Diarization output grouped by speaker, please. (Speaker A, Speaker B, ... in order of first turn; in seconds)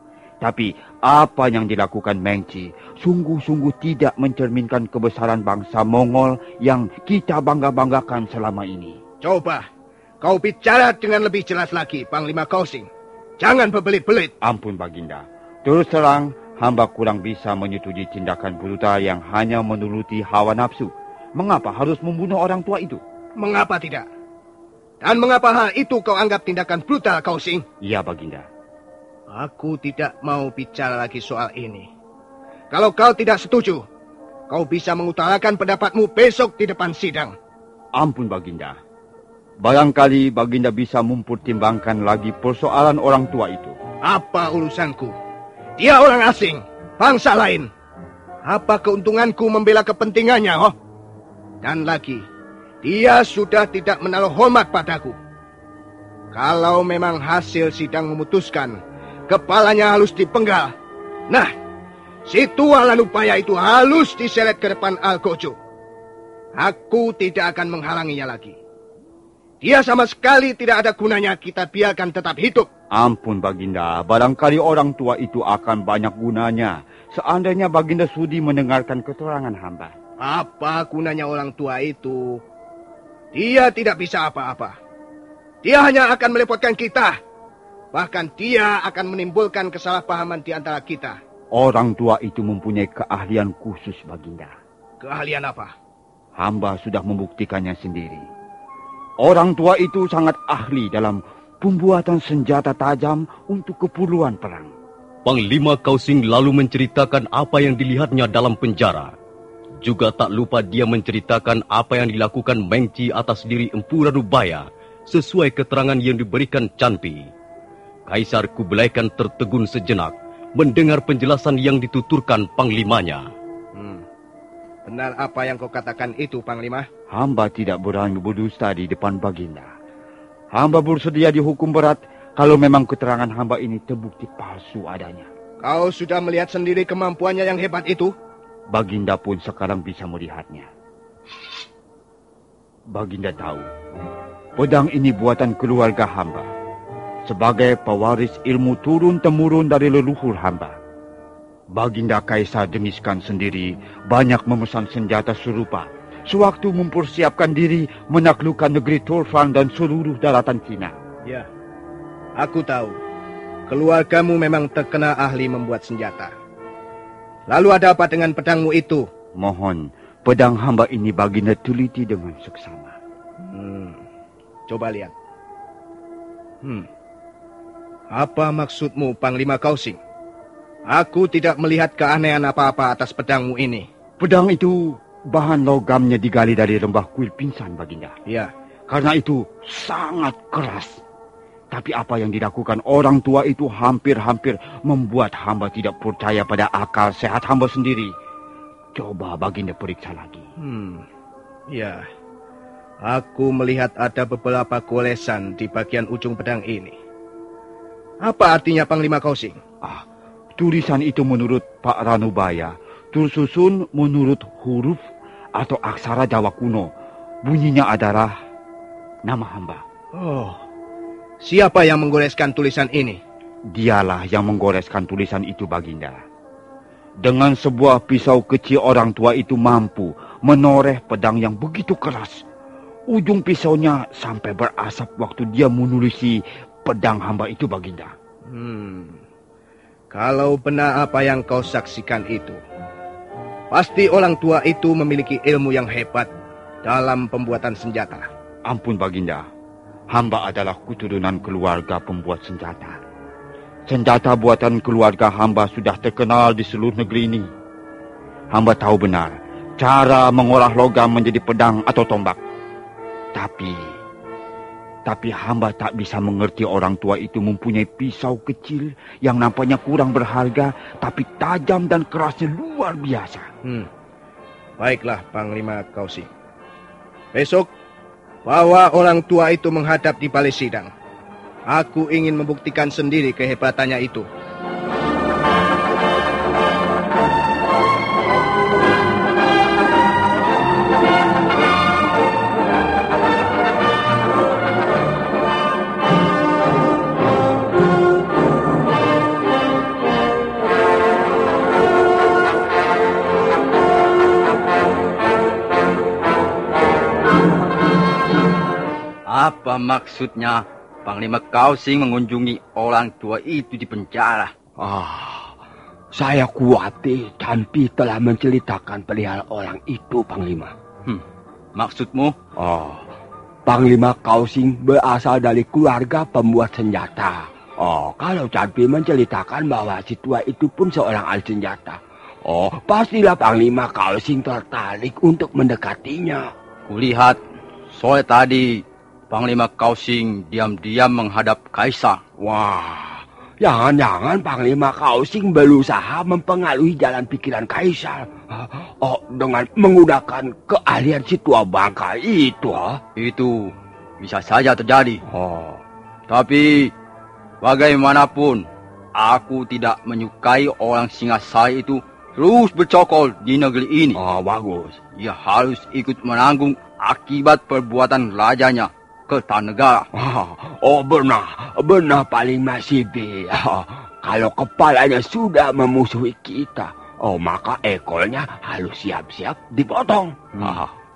Speaker A: 0.4-9.0, 14.4-23.0, 27.8-28.5, 38.0-38.8, 39.6-43.8, 72.9-80.0, 91.5-94.5, 96.4-98.3, 99.2-104.7, 127.1-129.7, 130.5-135.3, 138.7-140.7, 142.9-143.7, 144.6-146.5, 147.3-150.8, 151.7-160.9, 169.4-172.9, 184.2-188.1, 188.9-191.0, 191.7-198.1, 198.9-200.4, 210.6-215.0, 215.6-216.9, 217.4-218.3, 219.3-219.8, 223.7-226.2, 227.2-232.4, 233.1-238.2, 248.7-249.4, 250.1-253.0, 253.9-257.5, 258.5-262.4, 263.4-264.0, 265.1-273.5
Speaker B: 9.2-9.7, 10.2-12.9, 13.4-14.3, 23.4-24.1, 25.0-27.6, 29.3-31.9, 32.7-33.8, 34.5-37.4, 44.0-45.1, 45.8-47.7, 48.5-50.8, 51.6-52.2, 52.8-55.2, 56.3-60.7, 62.3-65.6, 66.6-68.6, 69.6-72.7, 80.2-82.4, 83.3-84.8, 85.6-87.2, 87.9-91.2, 95.0-95.7, 123.8-124.0, 124.9-126.9, 135.6-138.1, 162.4-163.0, 163.7-166.3, 167.5-169.1, 173.4-174.0, 174.7-175.1, 176.6-176.9, 178.1-180.0, 180.9-183.9, 200.6-201.1, 201.7-202.0, 203.0-206.9, 208.2-209.6, 220.1-220.6, 221.4-223.2, 238.5-239.2, 240.1-242.6, 243.7-246.3, 246.8-248.3, 273.6-273.9, 274.8-276.3, 277.3-277.7, 278.4-280.9, 281.7-284.3
Speaker C: 105.3-109.1, 109.8-117.3, 118.1-123.3
Speaker D: 309.3-314.5, 321.8-322.4, 336.9-337.4, 337.9-342.2, 353.2-355.2, 356.3-356.9, 357.6-364.2, 365.2-370.1, 380.6-380.8
Speaker E: 314.8-315.6, 316.1-320.7, 322.6-323.1, 323.7-336.5, 342.4-353.0, 355.3-355.8, 364.2-365.0, 370.2-380.9